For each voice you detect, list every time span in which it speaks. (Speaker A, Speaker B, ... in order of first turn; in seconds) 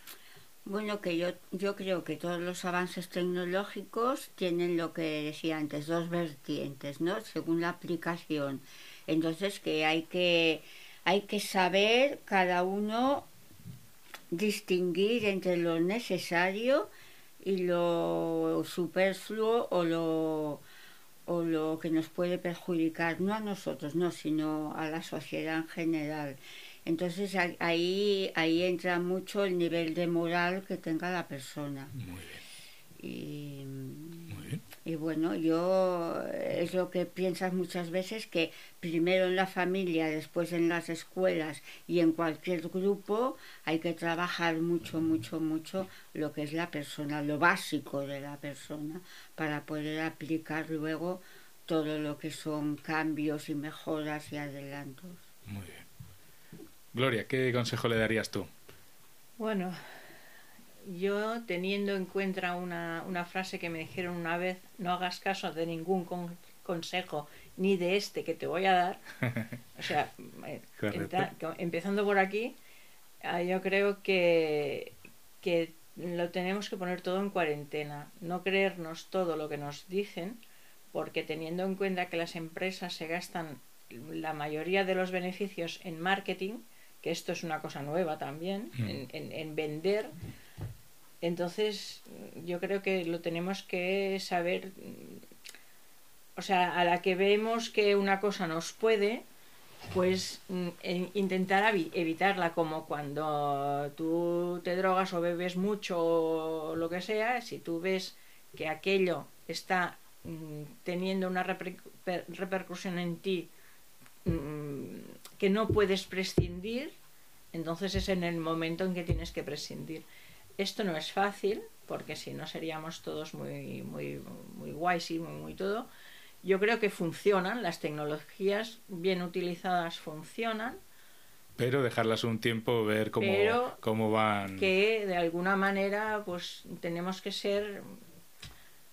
Speaker A: 0.7-13.3, 14.3-16.9, 17.4-20.6, 21.3-31.9, 33.0-55.2
Speaker B: 32.0-32.4, 34.3-34.6, 55.5-55.9, 56.9-58.5, 70.8-71.3, 131.6-134.7
Speaker C: 59.4-59.8, 60.9-69.0, 69.8-72.5, 73.2-80.4, 80.9-90.1, 91.2-95.2, 96.4-99.2, 99.9-113.5, 114.2-116.9, 117.5-120.1, 120.6-125.9, 126.4-130.8, 133.2-133.8, 134.5-137.9